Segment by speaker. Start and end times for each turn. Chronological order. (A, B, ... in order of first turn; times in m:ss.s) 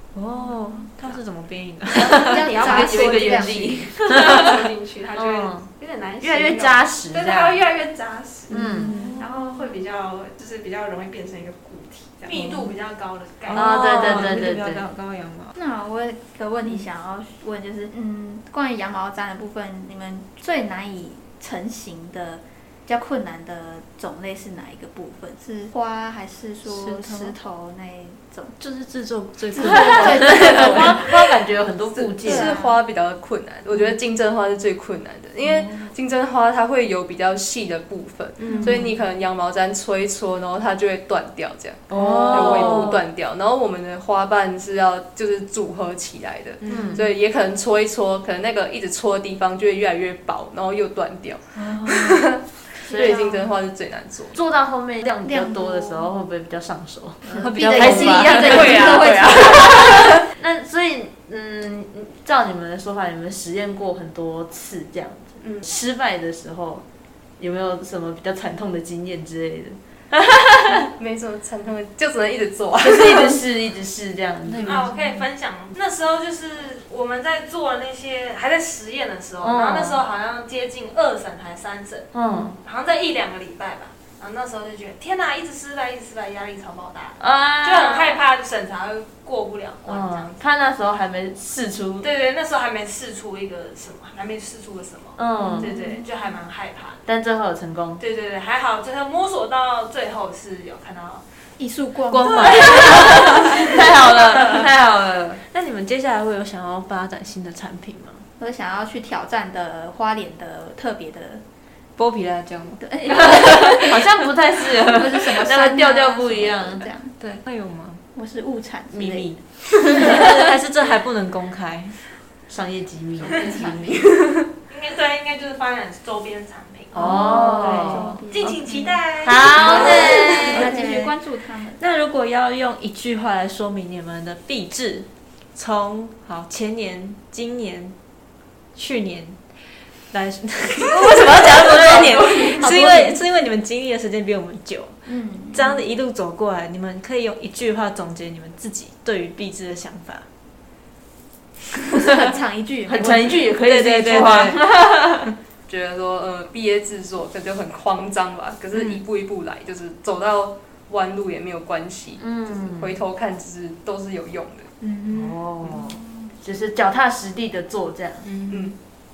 0:00.1-0:02.7 A
0:00.4-0:00.9 B
0:02.0-0:12.6 C
0:02.0-0:03.8 B
0:02.6-0:05.7 D
0:04.1-0:04.4 A
0:06.2-0:07.6 D
0:08.5-0:09.0 D
0:08.5-0:09.3 A
0:12.2-0:14.2 E
0:13.5-0:15.5 A
0:13.5-0:14.8 D
0:15.6-0:28.6 B
0:26.6-0:27.4 A
0:28.6-0:31.1 A
0:29.5-0:31.0 B
0:29.6-0:31.0 F
0:29.6-0:32.6 D
0:31.9-0:54.4 F
0:32.2-0:32.8 B
0:35.4-0:35.9 A
0:38.4-0:39.0 A
0:38.5-0:38.8 B
0:41.9-0:43.0 A
0:41.9-0:43.0 D
0:46.6-0:47.0 A
0:46.6-0:47.1 D
0:51.6-0:52.3 A
0:52.9-0:53.5 B
0:52.9-0:53.3 D
0:54.3-1:06.8 D
0:55.2-0:56.1 B
0:57.3-1:00.2 B
0:57.3-1:00.0 A
1:07.4-1:10.9 D
1:10.8-1:13.4 F
1:12.8-1:14.7 D
1:14.4-1:15.2 A
1:14.6-1:30.4 E
1:19.4-1:20.0 D
1:22.1-1:22.6 D
1:27.2-1:28.2 D
1:29.8-1:32.0 D
1:32.0-1:37.0 E
1:35.2-1:35.7 D
1:35.5-1:36.1 B
1:37.0-1:38.0 D
1:38.0-1:41.2 E
1:41.6-1:43.7 B
1:42.1-1:44.7 A
1:42.4-1:45.4 D
1:42.6-1:43.4 E
1:45.5-1:48.2 A
1:48.4-1:51.4 B
1:52.0-1:54.1 A
1:52.8-1:54.0 B
1:53.1-1:56.9 D
1:54.9-1:57.2 B
1:55.0-1:55.5 A
1:57.2-1:58.0 A
1:58.1-2:00.3 B
1:58.9-2:02.0 A
1:59.0-2:00.4 D
2:02.5-2:04.2 D
2:03.3-2:04.0 B
2:04.7-2:07.0 E
2:06.9-2:08.1 D
2:06.9-2:08.9 B
2:07.0-2:11.2 A
2:08.3-2:10.4 E
2:09.2-2:10.7 D
2:09.5-2:11.8 B
2:11.8-2:17.9 A
2:18.7-2:19.4 A
2:20.1-2:25.0 A
2:21.7-2:23.1 B
2:21.8-2:23.1 D
2:25.1-2:25.8 B
2:25.5-2:30.2 A
2:31.9-2:33.5 B
2:32.8-2:35.3 D
2:33.0-2:34.7 A
2:34.1-2:34.6 B
2:35.7-2:44.7 F
2:38.7-2:39.0 A
2:42.2-2:43.0 D
2:44.8-2:45.4 A
2:45.1-2:48.3 D
2:48.2-2:48.8 A
2:48.5-2:48.8 F